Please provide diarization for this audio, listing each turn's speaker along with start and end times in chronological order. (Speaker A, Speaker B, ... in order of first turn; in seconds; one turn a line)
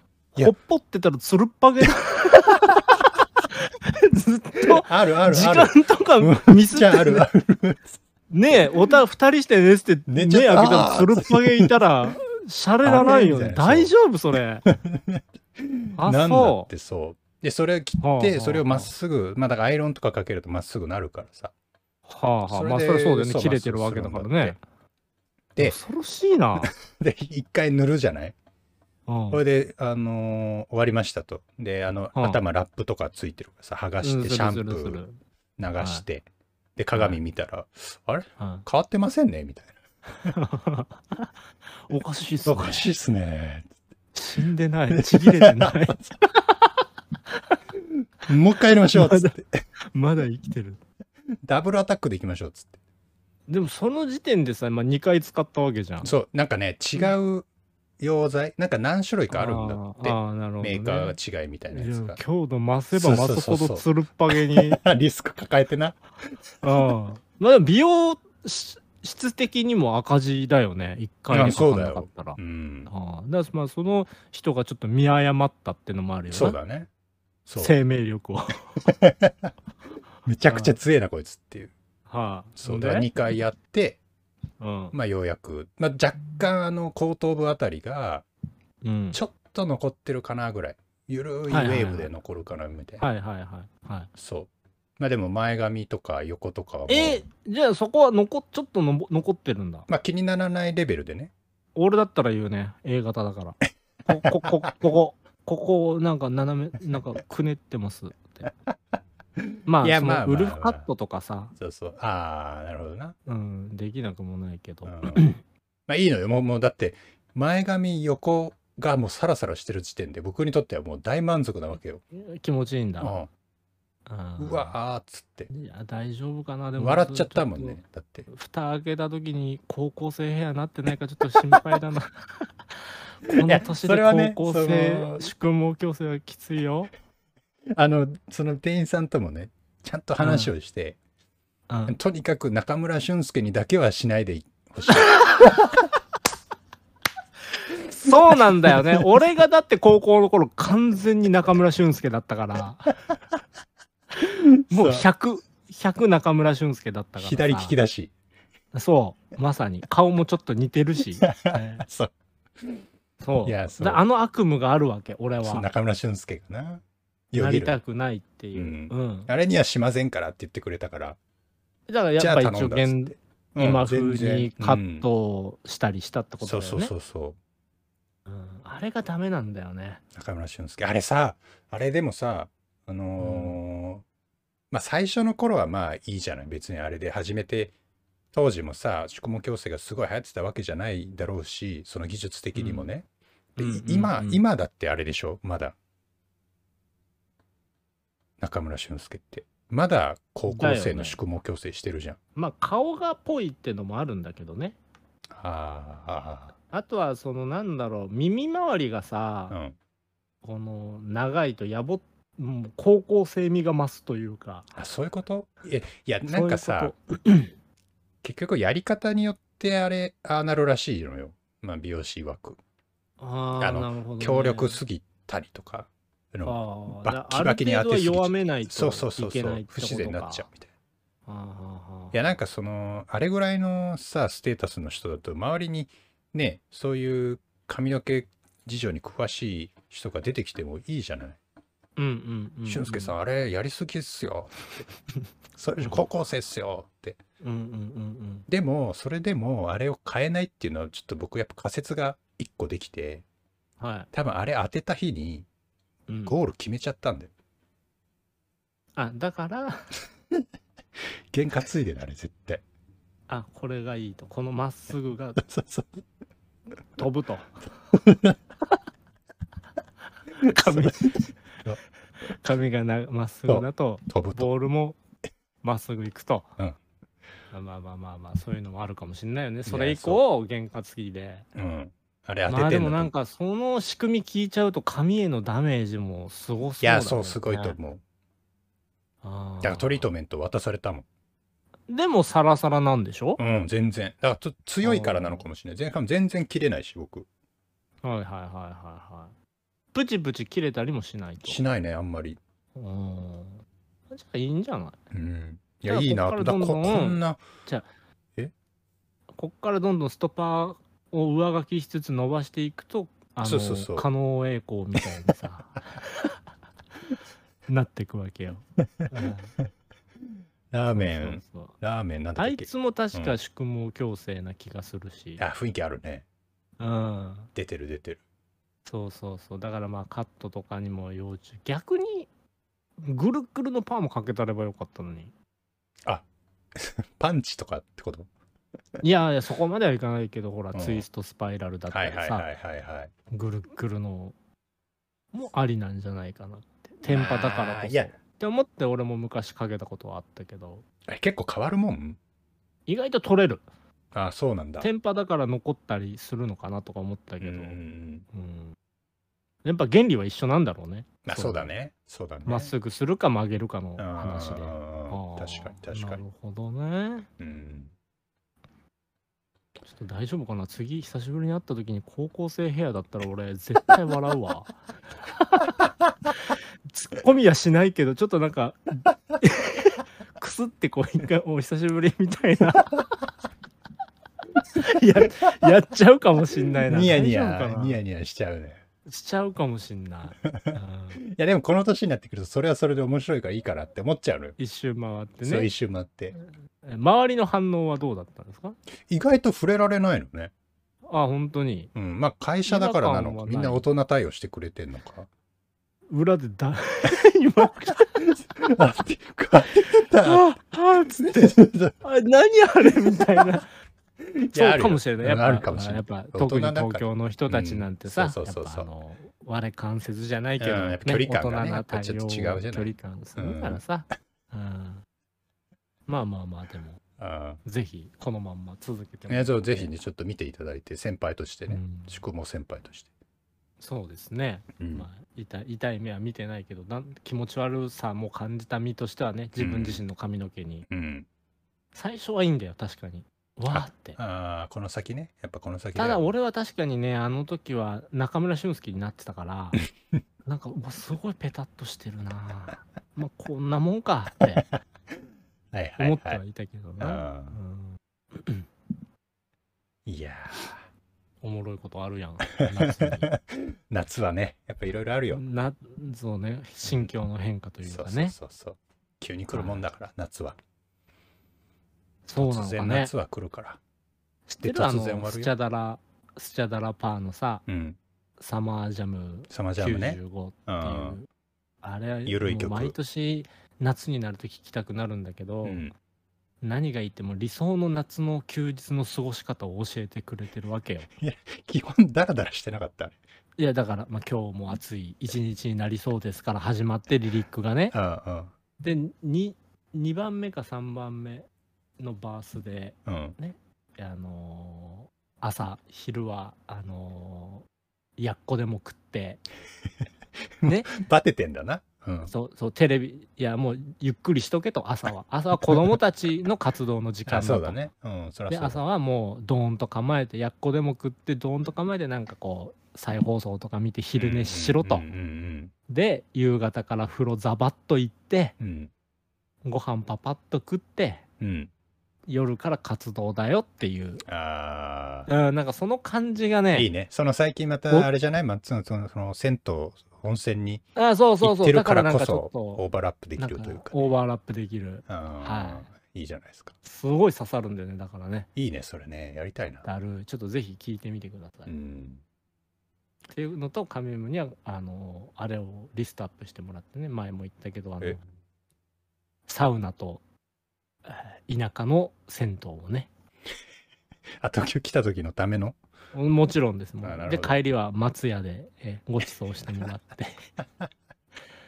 Speaker A: 0.4-7.3
Speaker B: 4.6-8.0
Speaker A: 8.3-14.7
Speaker B: 8.5-8.8
Speaker B: 10.1-12.1
Speaker B: 12.8-13.9
Speaker B: 14.7-21.5
Speaker A: 16.0-16.7
Speaker A: 18.0-18.9
Speaker A: 22.1-24.6
Speaker B: 22.5-24.6
Speaker A: 25.6-26.7
Speaker B: 26.6-28.3
Speaker A: 29.1-29.4
Speaker B: 29.3-35.0
Speaker A: 34.0-35.2
Speaker B: 35.6-36.3
Speaker A: 35.8-36.0
Speaker B: 36.8-40.3
Speaker A: 38.4-38.6
Speaker A: 40.3-41.3
Speaker A: 41.9-42.9
Speaker B: 42.5-43.7
Speaker A: 44.1-46.8
Speaker B: 44.9-46.1
Speaker A: 47.3-47.6
Speaker B: 47.9-49.6
Speaker A: 48.9-50.8
Speaker B: 51.5-52.7
Speaker A: 53.5-56.1
Speaker B: 56.0-57.5
Speaker B: 58.0-62.2
Speaker A: 59.3-61.2
Speaker A: 61.7-64.8
Speaker B: 62.9-66.9
Speaker A: 66.6-76.6
Speaker B: 71.3-72.9
Speaker B: 76.3-76.9
Speaker B: 77.5-77.8
Speaker A: 77.6-78.9
Speaker B: 78.8-79.5
Speaker B: 80.3-81.7
Speaker A: 80.5-80.8
Speaker A: 82.1-83.1
Speaker B: 82.6-84.0
Speaker A: 84.6-85.0
Speaker B: 84.9-88.3
Speaker A: 88.8-89.2
Speaker B: 89.1-93.1
Speaker A: 91.5-92.1
Speaker A: 93.0-94.1
Speaker B: 94.2-97.3
Speaker A: 96.9-99.9
Speaker B: 99.9-101.3
Speaker A: 101.8-108.5
Speaker B: 104.2-104.7
Speaker B: 109.4-110.8
Speaker A: 109.7-111.5
Speaker B: 111.6-113.2
Speaker A: 113.3-115.4
Speaker B: 114.8-115.3
Speaker B: 115.9-122.0
Speaker A: 122.1-123.1
Speaker B: 123.0-123.3
Speaker A: 124.1-124.7
Speaker B: 124.4-125.5
Speaker A: 125.5-136.9
Speaker B: 126.8-128.3
Speaker B: 133.3-135.3
Speaker B: 137.8-141.0
Speaker A: 140.2-140.5
Speaker A: 141.7-142.0
Speaker B: 141.9-145.8
Speaker A: 147.9-152.9
Speaker B: 148.0-149.0
Speaker B: 154.2-155.1
Speaker A: 154.7-157.8
Speaker B: 157.2-158.1
Speaker A: 158.7-161.8
Speaker B: 161.2-162.8
Speaker A: 163.2-165.7
Speaker B: 163.4-164.0
Speaker B: 165.4-167.8
Speaker A: 167.3-169.3
Speaker B: 168.6-171.2
Speaker A: 171.9-176.9
Speaker B: 172.2-175.1
Speaker B: 176.4-177.4
Speaker A: 178.3-180.0
Speaker B: 180.2-184.0
Speaker A: 183.2-183.6
Speaker B: 184.7-187.7
Speaker B: 188.3-193.1
Speaker A: 192.6-192.9
Speaker A: 193.6-194.4
Speaker B: 193.6-195.8
Speaker B: 198.4-202.2
Speaker A: 200.5-201.2
Speaker A: 202.4-204.8
Speaker B: 205.3-206.6
Speaker A: 206.7-209.6
Speaker B: 209.5-209.8
Speaker A: 210.4-214.7
Speaker B: 214.8-216.9
Speaker A: 216.3-217.5
Speaker B: 218.2-222.6
Speaker A: 223.2-224.8
Speaker B: 223.6-230.7
Speaker A: 226.5-230.5
Speaker A: 231.3-232.1
Speaker B: 232.1-241.4
Speaker A: 242.0-243.1
Speaker B: 242.7-244.9
Speaker B: 245.6-247.2
Speaker A: 247.4-248.5
Speaker B: 248.5-253.2
Speaker A: 253.8-254.1
Speaker B: 254.1-255.5
Speaker A: 256.1-256.3
Speaker B: 256.3-257.3
Speaker A: 258.9-259.9
Speaker B: 261.3-262.6
Speaker A: 263.3-265.4
Speaker B: 265.4-266.0
Speaker A: 267.0-267.6
Speaker B: 267.9-268.4
Speaker B: 270.4-271.8
Speaker A: 270.4-271.2
Speaker A: 272.2-275.0
Speaker B: 273.5-274.5
Speaker A: 275.6-276.5
Speaker A: 277.5-281.5
Speaker B: 279.7-280.2
Speaker B: 281.6-283.1
Speaker A: 282.5-287.8
Speaker B: 286.8-288.0
Speaker A: 289.2-290.1
Speaker B: 289.6-291.1
Speaker A: 291.9-293.4
Speaker B: 293.4-297.3
Speaker A: 294.8-295.4
Speaker A: 298.0-299.3
Speaker A: 299.9-301.6
Speaker B: 301.4-302.4
Speaker A: 302.8-305.0
Speaker B: 305.1-307.4
Speaker A: 305.9-307.9
Speaker A: 309.3-316.4
Speaker B: 313.4-314.1
Speaker A: 317.7-319.5
Speaker B: 320.7-323.4
Speaker A: 320.9-321.7
Speaker A: 322.4-325.4
Speaker B: 325.4-326.2
Speaker A: 326.8-327.5
Speaker B: 327.5-328.2
Speaker A: 328.9-332.3
Speaker A: 333.0-335.3
Speaker B: 336.1-338.3
Speaker A: 339.0-342.4
Speaker B: 340.7-341.1
Speaker B: 341.9-343.1
Speaker A: 343.3-344.4
Speaker A: 345.3-350.8
Speaker B: 347.1-348.2
Speaker B: 351.1-352.2
Speaker A: 352.9-353.6
Speaker B: 354.1-354.9
Speaker A: 354.8-357.8
Speaker B: 357.4-358.2
Speaker A: 358.3-358.8
Speaker A: 359.6-361.7
Speaker B: 361.2-362.7
Speaker A: 362.5-367.3
Speaker B: 364.0-366.2
Speaker B: 367.4-367.9
Speaker A: 369.8-383.0
Speaker A: 384.8-388.0
Speaker B: 386.9-388.8
Speaker A: 389.1-391.2
Speaker B: 390.4-394.6
Speaker A: 394.6-395.7
Speaker B: 395.4-396.4
Speaker A: 396.8-398.8
Speaker B: 399.1-400.5
Speaker A: 401.1-401.9
Speaker B: 401.9-405.3
Speaker A: 402.7-403.9
Speaker A: 406.1-408.2
Speaker B: 408.2-410.5
Speaker A: 410.2-413.7
Speaker B: 411.2-411.9
Speaker B: 414.2-418.9
Speaker A: 414.5-425.1
Speaker B: 420.6-423.8
Speaker A: 426.1-427.0
Speaker B: 427.2-427.6
Speaker A: 427.6-429.9
Speaker B: 429.3-433.1
Speaker A: 431.7-432.1
Speaker A: 433.8-440.9
Speaker B: 434.8-435.1
Speaker B: 439.6-440.0
Speaker B: 440.9-441.3
Speaker A: 441.9-444.2
Speaker B: 443.7-446.3
Speaker A: 446.0-449.8
Speaker A: 450.4-454.6
Speaker B: 455.7-456.4
Speaker A: 456.0-458.7
Speaker B: 457.0-457.6
Speaker B: 460.1-460.9
Speaker A: 461.4-463.3
Speaker B: 462.5-465.4
Speaker A: 465.3-468.3
Speaker B: 466.8-467.1
Speaker B: 467.8-470.6
Speaker A: 469.5-469.8
Speaker A: 472.3-473.1
Speaker B: 472.4-473.8
Speaker A: 474.5-477.6
Speaker B: 474.6-475.5
Speaker B: 477.7-478.0
Speaker A: 478.4-481.3
Speaker B: 479.5-481.2
Speaker A: 481.8-485.8
Speaker B: 482.3-483.0
Speaker B: 485.6-485.9
Speaker A: 486.6-491.1
Speaker B: 491.2-493.2
Speaker A: 493.6-497.9
Speaker B: 497.9-498.5
Speaker A: 498.8-501.5
Speaker A: 502.0-507.7
Speaker B: 503.1-503.4
Speaker A: 508.2-509.4
Speaker B: 510.6-512.3
Speaker A: 510.6-510.9
Speaker A: 512.3-517.8
Speaker B: 517.3-518.8
Speaker A: 518.5-525.0
Speaker B: 524.1-525.7
Speaker A: 525.9-528.6
Speaker B: 528.6-528.9
Speaker A: 529.6-531.2
Speaker B: 531.4-531.7
Speaker A: 532.3-534.2
Speaker B: 534.3-535.3
Speaker A: 535.3-536.9
Speaker B: 536.7-540.9
Speaker A: 541.0-542.8
Speaker B: 541.4-544.1
Speaker A: 543.4-545.9
Speaker B: 545.1-546.7
Speaker A: 546.8-548.5
Speaker B: 548.6-549.9
Speaker A: 549.9-551.7
Speaker B: 551.7-552.2
Speaker A: 553.3-558.2
Speaker A: 559.5-560.2
Speaker A: 561.0-563.1
Speaker B: 564.4-565.8
Speaker A: 566.1-570.4
Speaker B: 567.0-567.6
Speaker B: 570.6-570.9